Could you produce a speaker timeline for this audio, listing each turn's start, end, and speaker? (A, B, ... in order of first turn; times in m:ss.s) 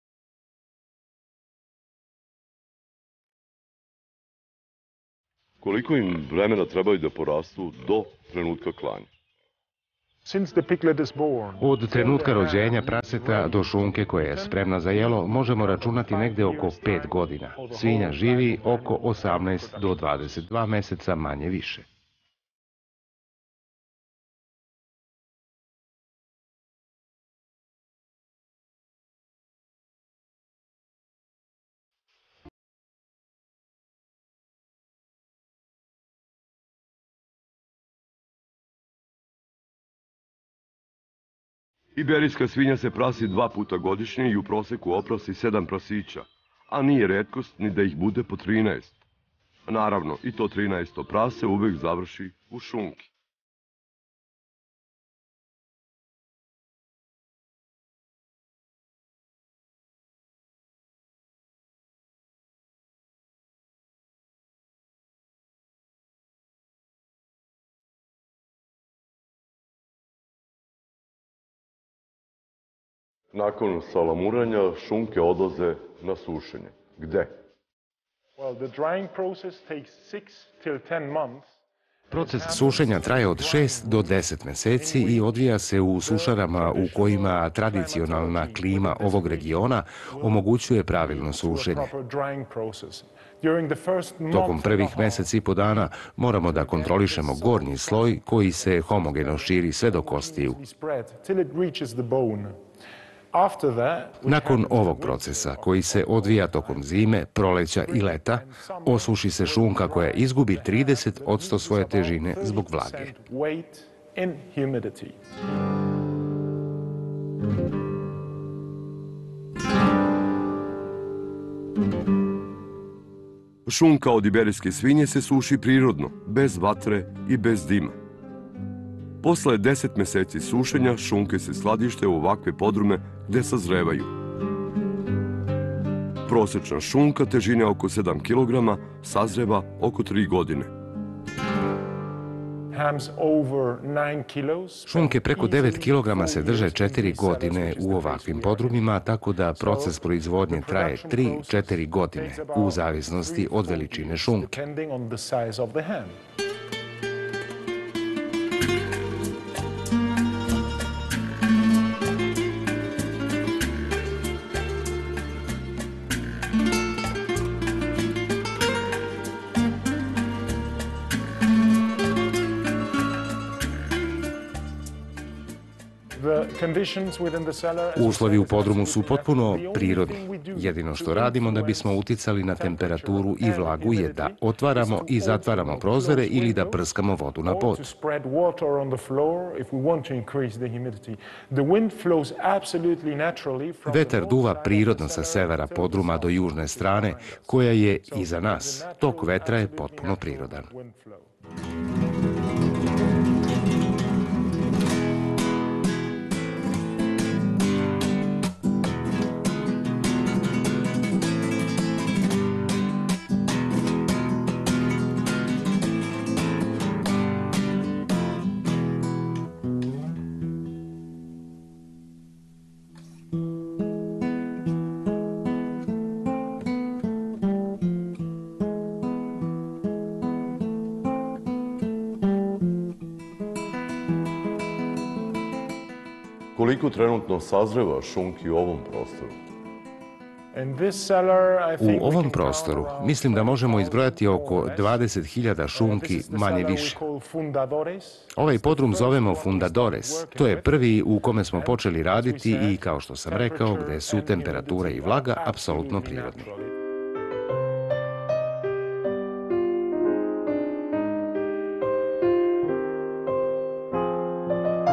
0:05.6-0:09.1 A
0:10.2-0:20.4 B
0:11.6-0:21.9 C
0:42.0-0:49.0 A
0:49.7-0:53.1 A
1:13.3-1:17.3 A
1:18.4-1:21.6 B
1:22.1-1:35.3 B
1:22.1-1:31.9 C
1:34.3-1:40.6 C
1:36.4-1:42.6 B
1:43.3-1:55.3 B
1:44.2-1:53.1 C
2:03.7-2:08.0 A
2:09.2-2:14.1 A
2:16.3-2:20.7 A
2:22.7-2:29.0 B
2:24.9-2:34.6 C
2:29.6-2:36.2 B
2:56.1-3:06.8 B
2:58.0-3:07.9 C
3:07.4-3:21.3 B
3:13.9-3:20.7 C
3:56.6-3:59.3 A
4:00.5-4:05.1 B
4:01.8-4:07.0 C
4:05.7-4:16.8 B
4:08.3-4:16.5 C